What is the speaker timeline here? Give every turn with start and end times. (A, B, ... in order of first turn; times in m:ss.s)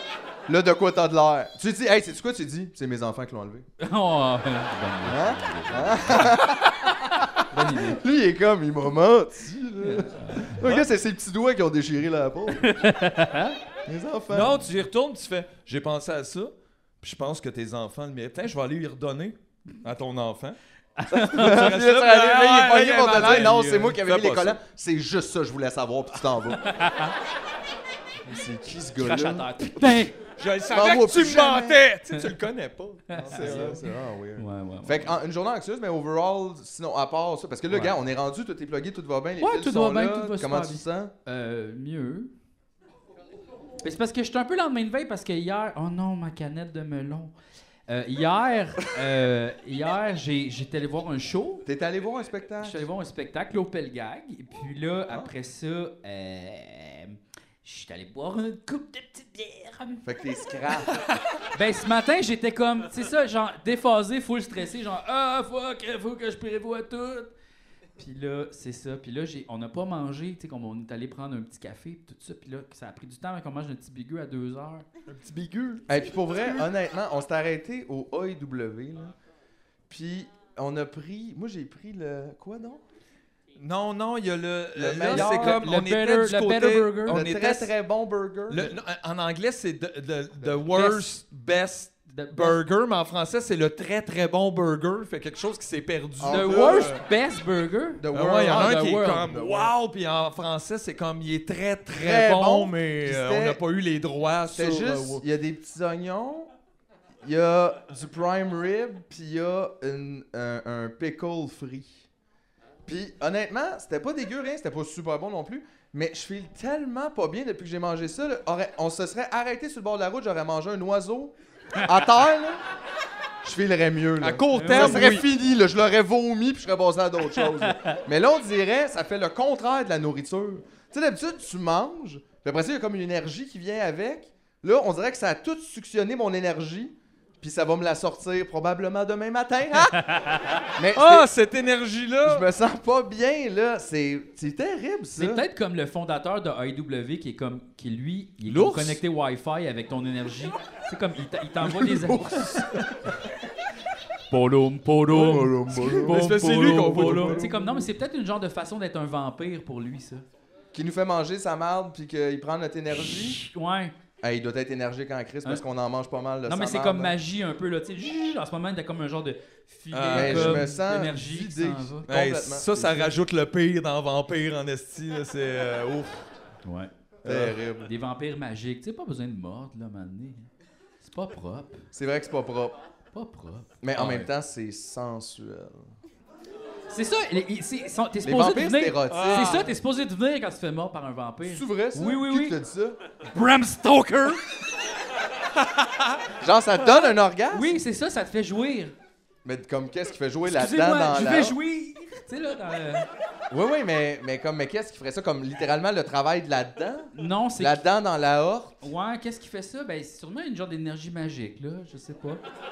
0:00.5-0:03.6 A
0:03.8-0:06.4 B
0:05.0-0:06.9 A
0:07.4-0:08.0 B
0:07.6-0:12.7 A
0:09.8-0:10.6 B
0:12.6-0:13.6 B
0:13.9-0:14.6 A
0:14.3-0:20.6 C
0:21.0-0:21.7 B
0:21.2-0:24.6 C
0:21.3-0:26.6 A
0:26.6-0:27.2 B
0:28.3-0:30.0 A
0:29.0-0:30.2 B
0:30.4-0:33.8 C
0:30.7-0:31.8 A
0:33.1-0:33.8 B
0:33.2-0:41.1 A
0:34.4-0:35.2 B
0:39.4-0:42.3 B
0:43.8-0:47.3 B
0:47.9-0:51.7 B
0:51.7-0:52.8 A
0:52.6-1:00.0 B
1:00.0-1:01.0 A
1:01.5-1:07.3 B
1:08.0-1:14.9 B
1:15.1-1:16.7 C
1:15.9-1:19.1 A
1:19.9-1:22.8 A
1:23.6-1:27.6 C
1:24.8-1:25.7 A
1:25.1-1:27.5 B
1:27.1-1:28.8 A
1:28.5-1:37.0 C
1:30.7-1:31.0 B
1:32.1-1:32.6 B
1:36.2-1:37.0 A
1:36.3-1:39.2 B
1:38.0-1:39.7 A
1:38.1-1:45.2 C
1:41.9-1:43.6 A
1:44.5-1:46.5 A
1:47.2-1:52.1 A
1:52.9-2:02.6 A
2:03.4-2:20.0 A
2:04.2-2:05.3 C
2:04.5-2:05.2 B
2:07.4-2:08.0 B
2:20.0-2:20.4 B
2:20.8-2:21.3 A
2:20.9-2:22.5 C
2:22.2-2:25.4 A
2:25.2-2:32.6 B
2:28.5-2:29.0 C
2:31.6-2:33.1 A
2:34.3-2:40.2 B
2:35.1-2:37.8 A
2:35.9-2:37.5 C
2:40.7-2:43.4 A
2:43.0-2:43.9 B
2:44.2-2:47.2 A
2:46.5-2:52.1 B
2:49.9-2:50.7 C
2:50.1-2:53.2 A
2:52.1-2:56.3 C
2:56.6-2:56.9 B
2:57.2-2:57.6 C
2:57.2-2:57.9 A
2:57.8-3:00.5 B
3:01.0-3:01.9 B
3:01.9-3:02.8 A
3:03.1-3:04.3 B
3:03.8-3:05.9 A
3:06.9-3:12.6 B
3:08.2-3:09.7 A
3:09.1-3:09.7 C
3:11.4-3:13.0 A
3:13.4-3:14.4 B
3:16.4-3:17.8 A
3:17.5-3:19.0 B
3:19.4-3:21.6 A
3:20.4-3:23.1 B
3:23.5-3:28.8 A
3:27.1-3:27.8 B
3:28.8-3:32.4 B